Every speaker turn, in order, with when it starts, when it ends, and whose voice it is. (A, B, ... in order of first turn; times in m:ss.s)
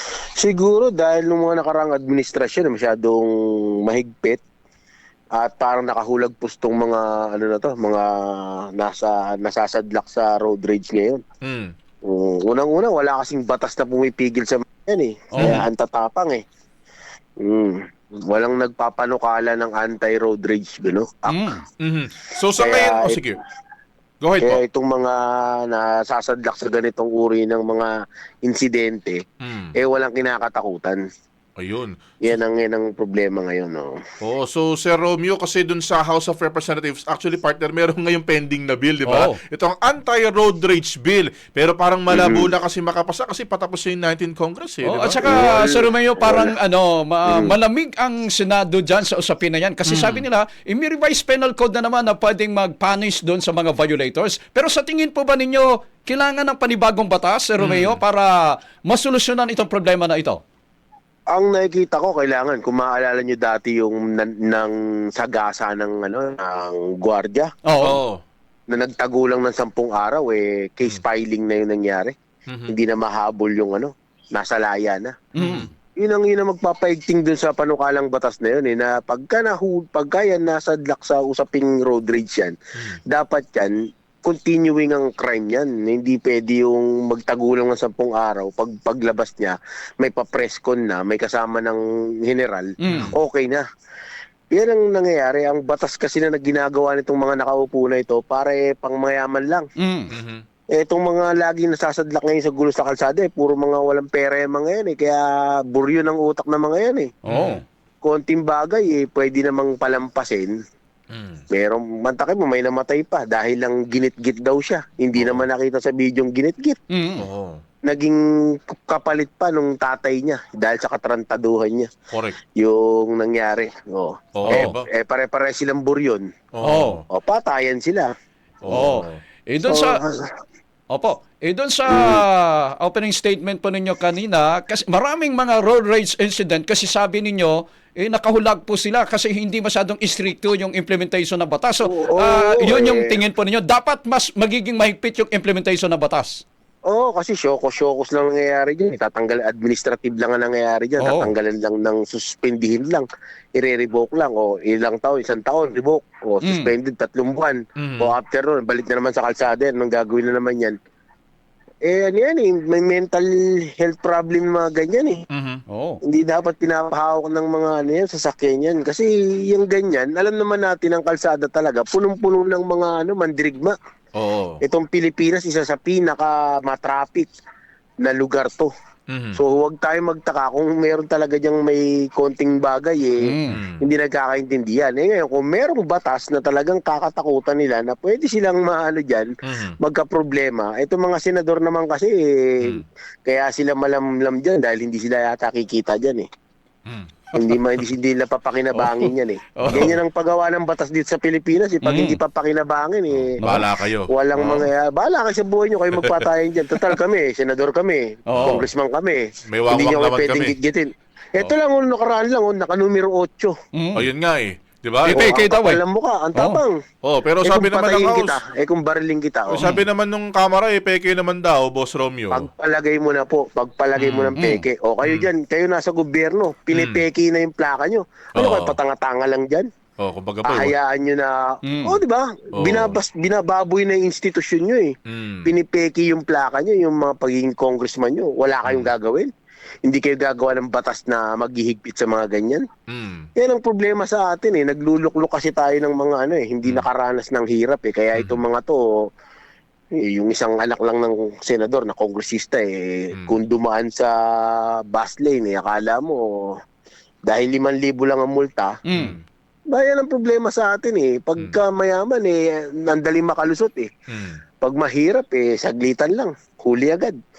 0:00.4-0:03.3 A
0:03.8-0:04.4 A
0:05.4-0:11.2 A
0:11.4-0:11.7 B
0:12.0-0:16.4 A
0:15.3-0:15.6 C
0:17.4-0:21.4 A
0:21.3-0:21.6 C
0:21.8-0:23.4 B
0:22.6-0:23.2 A
0:24.2-0:24.6 B
0:24.4-0:27.9 A
0:28.4-0:29.2 A
0:29.4-0:29.7 B
0:29.8-0:31.0 A
0:31.6-0:32.4 B
0:32.2-0:33.9 A
0:34.2-0:45.2 B
0:39.1-0:39.4 C
0:42.1-0:42.5 A
0:44.8-0:58.3 C
0:45.2-0:46.5 A
0:47.2-0:47.5 A
0:49.8-0:50.2 B
0:57.6-0:58.0 B
0:58.9-1:00.4 C
1:01.3-1:07.5 A
1:07.7-1:08.0 C
1:07.8-1:08.2 B
1:08.7-1:12.1 A
1:12.5-1:12.7 B
1:12.7-1:15.2 A
1:15.4-1:15.7 C
1:15.4-1:15.7 B
1:16.0-1:22.5 A
1:23.1-1:33.6 A
1:32.8-1:33.1 C
1:32.9-1:33.1 B
1:34.5-1:39.6 A
1:39.8-1:40.1 C
1:40.1-1:40.4 B
1:40.8-1:47.1 A
1:47.3-1:47.6 C
1:47.3-1:47.6 B
1:48.0-1:50.5 A
1:51.1-1:51.4 B
1:51.5-1:56.8 A
1:55.1-1:55.4 B
1:56.9-1:57.2 C
1:57.2-1:57.6 B
1:57.9-2:01.9 A
2:02.1-2:02.4 B
2:02.6-2:06.2 A
2:04.4-2:04.8 B
2:06.5-2:07.0 B
2:06.6-2:07.0 C
2:07.1-2:08.1 A
2:08.6-2:09.2 B
2:08.7-2:10.0 C
2:09.6-2:10.2 A
2:10.9-2:26.4 C
2:11.9-2:12.2 A
2:21.8-2:23.2 A
2:26.9-2:40.8 A
2:31.0-2:31.3 C
2:36.4-2:36.7 C
2:37.8-2:38.1 B
2:41.8-2:45.2 A
2:45.3-2:45.6 B
2:45.7-2:46.0 C
2:46.0-2:53.8 A
2:54.2-2:54.6 B
2:54.6-2:57.3 A
2:58.0-2:58.7 A
2:59.1-2:59.4 B
2:59.4-3:03.3 A
3:03.2-3:03.6 C
3:03.5-3:03.8 B
3:03.8-3:16.2 A
3:09.4-3:09.8 B
3:17.3-3:23.4 A
3:18.8-3:19.1 C
3:19.6-3:20.0 C
3:19.6-3:20.0 B
3:21.8-3:22.2 C
3:23.1-3:24.1 B
3:23.4-3:23.6 C
3:24.1-3:33.5 A
3:24.4-3:24.6 C
3:26.0-3:26.2 B
3:28.3-3:28.7 C
3:28.4-3:28.6 B
3:29.5-3:30.5 B
3:33.8-3:34.1 C
3:34.0-3:35.2 B
3:35.0-3:36.8 A
3:35.1-3:35.8 C
3:37.0-3:38.4 B
3:37.4-3:39.6 A
3:39.5-3:42.4 B
3:42.3-3:49.7 A
3:44.0-3:44.3 B
3:44.4-3:44.6 C
3:45.0-3:45.3 B
3:46.7-3:47.0 B
3:48.4-3:48.7 B
3:50.0-3:50.7 B
3:50.4-3:54.9 A
3:51.6-3:52.0 C
3:52.6-3:53.0 B
3:55.1-3:55.5 B
3:55.4-3:59.3 A
3:58.6-3:58.9 B
3:59.8-4:02.6 A
4:02.9-4:03.3 B
4:03.4-4:08.8 A
4:08.1-4:08.4 B
4:10.0-4:16.2 A
4:17.3-4:18.7 A
4:18.9-4:19.2 C
4:18.9-4:19.2 B
4:19.7-4:23.9 A
4:24.1-4:24.4 B
4:24.6-4:27.2 A